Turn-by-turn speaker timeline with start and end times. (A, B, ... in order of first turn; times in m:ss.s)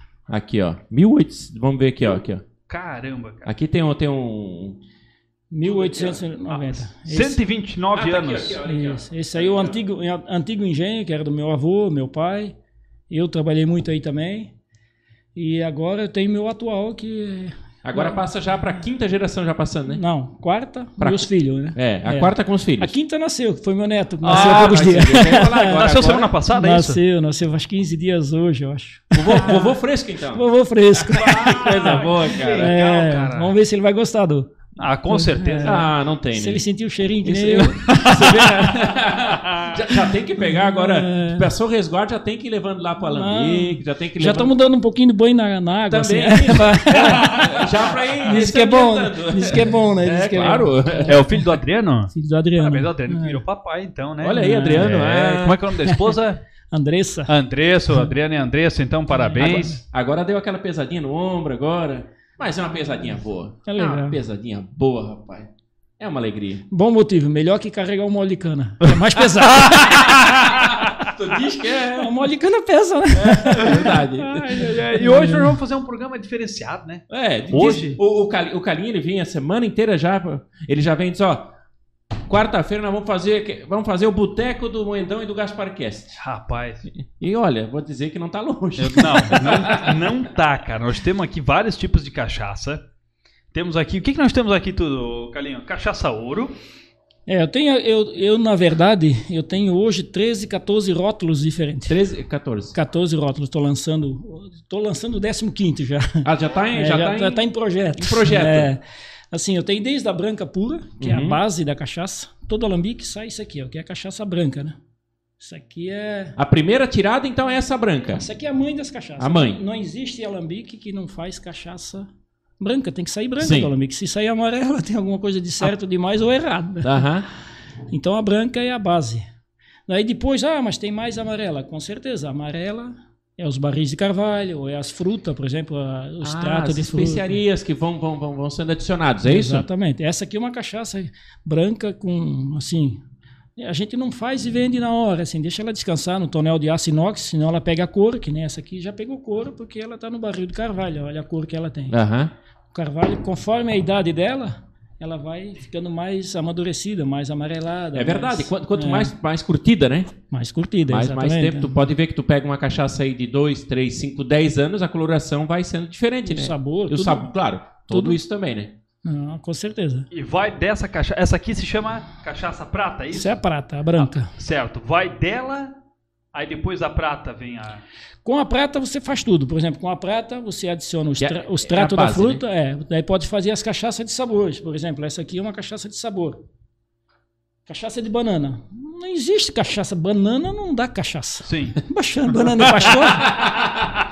0:00.3-0:02.4 A
0:02.7-0:03.5 B
0:03.4-0:04.8 A
0:05.5-0:07.4 C
0:05.6-0:06.4 A
0:07.0-0:08.6 B
0:07.9-0:09.8 A
0:08.6-0:12.5 C
0:13.1-0:14.5 C
0:15.3-0:18.2 C
0:17.8-0:20.0 A
0:19.9-0:25.8 C
0:21.0-0:22.9 A
0:24.2-0:27.0 B
0:24.3-0:26.4 A
0:26.5-0:29.8 C
0:29.1-0:32.8 A
0:30.3-0:34.5 C
0:31.6-0:33.5 B
0:34.8-0:35.8 B
0:35.1-0:37.9 C
0:35.6-0:36.6 A
0:37.2-0:44.5 A
0:37.9-0:38.9 B
0:39.5-0:39.8 B
0:40.4-0:41.5 C
0:43.1-0:47.6 C
0:45.9-0:51.2 A
0:47.1-0:47.6 B
0:48.2-0:51.4 C
0:51.0-0:56.4 B
0:52.1-0:53.4 C
0:54.2-0:55.6 A
0:54.3-0:55.0 C
0:55.9-0:56.1 C
0:56.7-0:57.3 C
0:57.3-0:59.8 B
0:59.1-0:59.8 C
0:59.4-1:06.6 A
1:03.6-1:04.2 C
1:06.7-1:10.2 C
1:09.4-1:12.1 A
1:11.9-1:15.5 C
1:13.2-1:14.6 A
1:13.6-1:18.0 B
1:17.1-1:21.5 A
1:22.3-1:26.2 A
1:26.2-1:26.9 B
1:26.9-1:30.1 A
1:28.8-1:32.8 B
1:33.5-1:36.5 B
1:37.3-1:42.0 C
1:41.9-1:42.8 A
1:42.7-1:54.8 C
1:46.2-1:48.7 A
1:51.0-1:51.4 A
1:55.4-1:56.4 C
1:56.4-1:58.2 A
1:58.1-2:02.1 C
1:59.2-1:59.6 A
2:02.6-2:07.0 C
2:03.4-2:03.7 A
2:06.8-2:07.2 A
2:07.9-2:09.2 C
2:09.9-2:17.4 C
2:16.2-2:19.7 A
2:19.2-2:23.0 C
2:23.6-2:32.0 C
2:31.9-2:32.3 A
2:32.7-2:39.1 C
2:37.9-2:40.1 A
2:40.3-2:41.8 C
2:40.9-2:48.7 A
2:46.2-2:47.3 C
2:47.9-2:48.2 C
2:49.0-2:50.1 C
2:50.1-2:53.4 B
2:53.1-2:54.3 C
2:53.9-2:55.7 B
2:56.3-2:57.8 B
2:58.2-3:06.4 C
3:01.2-3:02.4 A
3:07.6-3:13.5 C
3:11.4-3:11.8 B
3:12.7-3:13.8 A